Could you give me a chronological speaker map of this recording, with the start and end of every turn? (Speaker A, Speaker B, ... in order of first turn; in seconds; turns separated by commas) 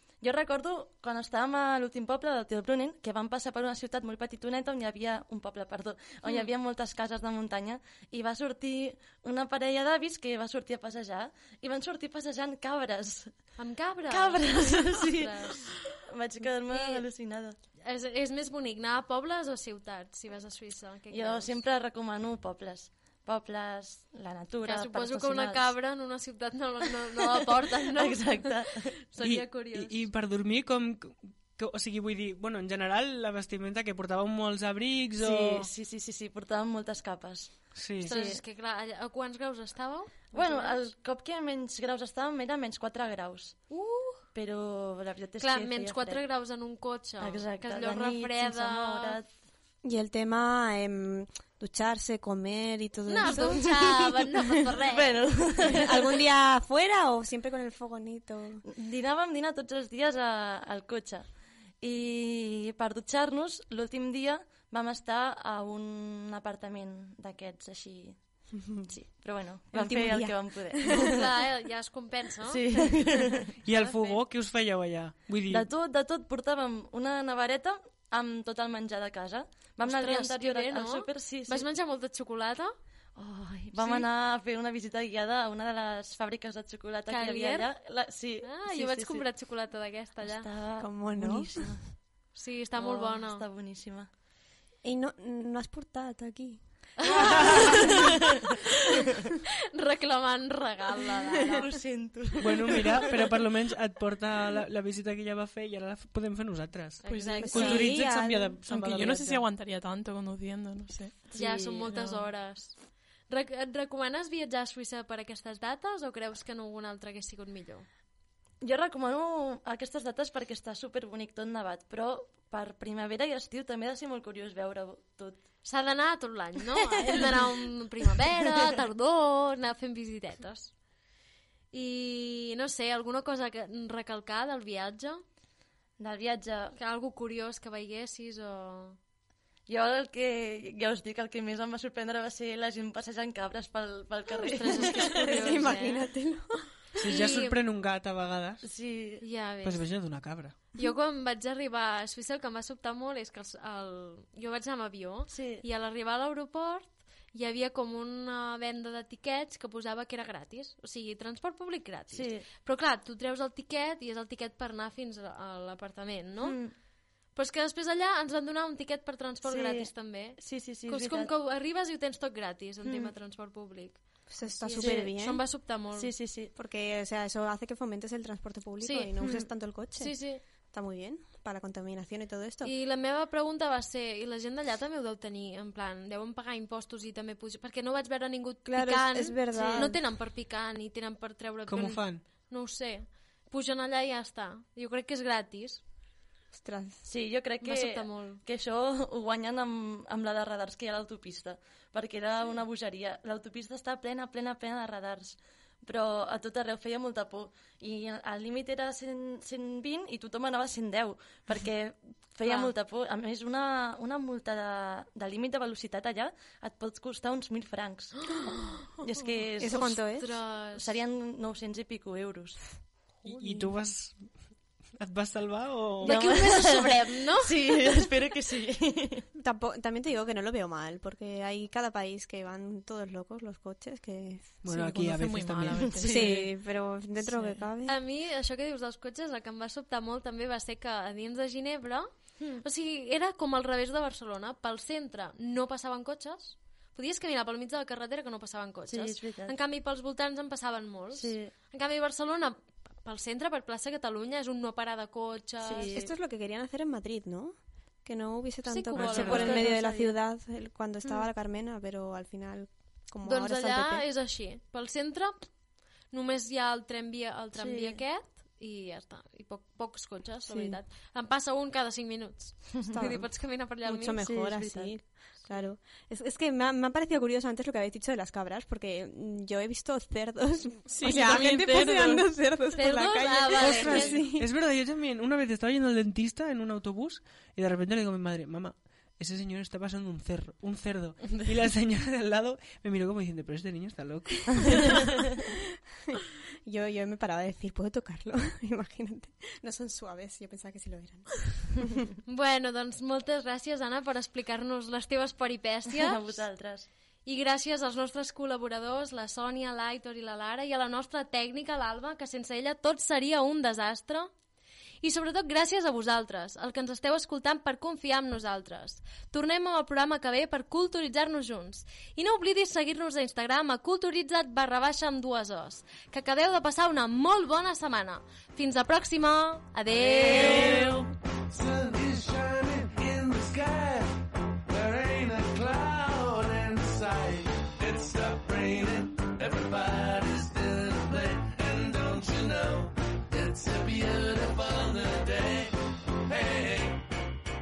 Speaker A: 0.2-13.6, Speaker B: 13.6-15.8, Speaker A: 14.1-17.6, Speaker B: 16.7-17.1, Speaker B: 17.8-21.6, Speaker A: 21.1-25.8, Speaker B: 24.6-30.0, Speaker A: 27.9-28.9, Speaker C: 29.2-35.7, Speaker A: 35.2-38.4, Speaker C: 37.8-38.2, Speaker B: 38.0-40.9, Speaker A: 40.3-43.6, Speaker B: 43.7-44.2, Speaker A: 44.3-46.2, Speaker B: 45.4-49.2, Speaker A: 47.2-49.3, Speaker D: 49.8-54.1, Speaker B: 53.1-55.2, Speaker A: 53.2-53.5, Speaker A: 54.9-56.0, Speaker D: 55.8-58.6, Speaker A: 58.6-61.2, Speaker A: 61.8-71.3, Speaker D: 68.6-68.9, Speaker D: 69.7-71.1, Speaker B: 70.9-73.0, Speaker A: 72.5-73.4, Speaker C: 73.6-75.7, Speaker B: 73.7-74.2, Speaker A: 75.5-81.7, Speaker B: 79.8-82.7, Speaker A: 83.2-89.3, Speaker B: 83.8-84.0, Speaker B: 87.1-87.7, Speaker B: 88.4-90.5, Speaker A: 90.2-91.8, Speaker D: 90.8-91.8, Speaker B: 92.3-93.5, Speaker A: 92.8-94.1, Speaker D: 94.8-98.1, Speaker B: 97.0-97.9, Speaker B: 99.8-101.7, Speaker A: 101.5-103.1, Speaker C: 102.4-109.5, Speaker B: 107.0-107.8, Speaker E: 107.0-107.8, Speaker D: 107.5-108.5, Speaker E: 108.7-111.3, Speaker A: 111.3-111.9, Speaker B: 111.3-112.8, Speaker E: 111.9-112.3, Speaker B: 113.3-117.9, Speaker A: 118.6-125.4, Speaker B: 125.6-130.7, Speaker A: 126.9-127.5, Speaker A: 128.3-128.7, Speaker B: 131.7-135.2, Speaker A: 136.0-136.8, Speaker B: 136.8-139.0, Speaker A: 139.7-145.8, Speaker D: 144.3-146.7, Speaker B: 144.6-146.1, Speaker C: 147.0-148.6, Speaker B: 147.0-147.6, Speaker A: 148.6-149.2, Speaker B: 149.2-149.9, Speaker C: 149.6-150.6, Speaker B: 150.8-166.6, Speaker A: 155.3-155.6, Speaker A: 162.1-162.5, Speaker A: 166.4-166.7, Speaker B: 167.3-176.1, Speaker A: 169.4-171.3, Speaker A: 172.8-173.1, Speaker D: 174.3-175.4, Speaker A: 174.8-175.2, Speaker A: 175.9-176.5, Speaker D: 176.6-182.7, Speaker B: 178.8-180.4, Speaker B: 182.6-195.8, Speaker D: 188.7-190.0, Speaker A: 189.5-189.9, Speaker C: 191.7-192.2, Speaker D: 196.5-197.0, Speaker A: 197.0-218.3, Speaker B: 197.6-198.4, Speaker B: 212.4-212.7, Speaker B: 218.3-218.7, Speaker A: 219.0-220.0, Speaker D: 219.6-220.4, Speaker B: 219.7-220.9, Speaker A: 220.7-222.8, Speaker C: 223.2-224.3, Speaker C: 224.9-226.2, Speaker B: 226.0-227.5, Speaker A: 226.0-229.2, Speaker D: 229.4-234.6, Speaker C: 234.6-236.0, Speaker E: 234.7-236.6, Speaker A: 235.9-236.3, Speaker D: 236.1-238.0, Speaker E: 237.2-237.7, Speaker B: 237.9-256.1, Speaker A: 248.9-249.6, Speaker A: 251.1-251.5, Speaker A: 255.6-256.1, Speaker D: 255.9-264.1, Speaker B: 258.7-260.1, Speaker C: 258.9-259.7, Speaker B: 263.2-265.5, Speaker B: 266.1-274.2, Speaker A: 267.5-268.0, Speaker D: 270.5-270.8, Speaker D: 272.9-284.5, Speaker A: 274.2-274.9, Speaker E: 280.9-282.3, Speaker B: 282.7-284.2, Speaker C: 283.6-295.1, Speaker D: 296.7-301.9, Speaker B: 302.3-306.4, Speaker A: 305.9-306.9, Speaker B: 307.2-314.3, Speaker B: 315.0-330.9, Speaker F: 330.0-347.0, Speaker A: 330.3-330.7